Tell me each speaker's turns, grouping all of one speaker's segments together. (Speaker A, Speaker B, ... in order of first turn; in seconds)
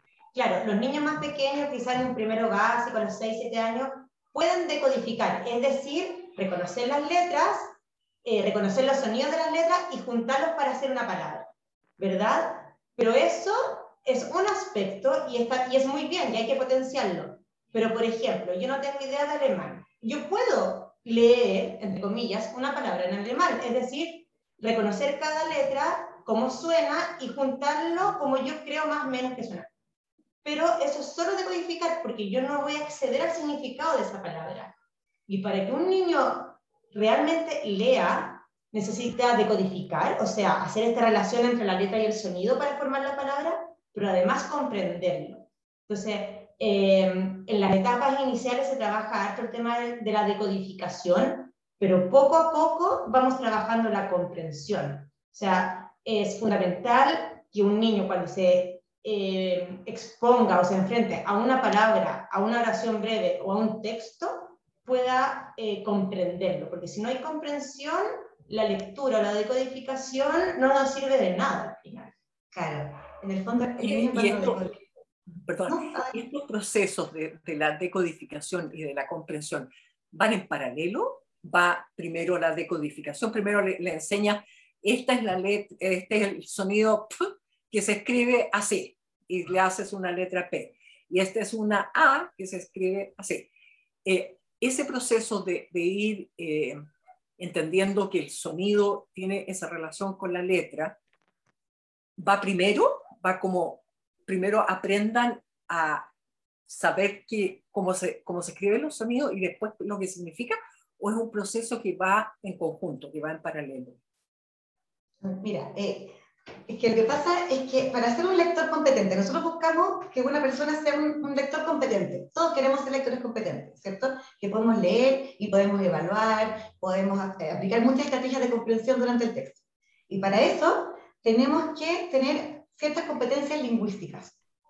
Speaker A: 0.3-29.7, 30.4-34.7, 35.3-72.1
Speaker B: 72.5-74.8, 75.7-76.2, 115.2-116.2, 116.7-134.3
Speaker C: 73.8-74.6, 75.4-93.5, 94.0-96.8, 97.4-101.0, 102.2-106.1, 106.7-114.0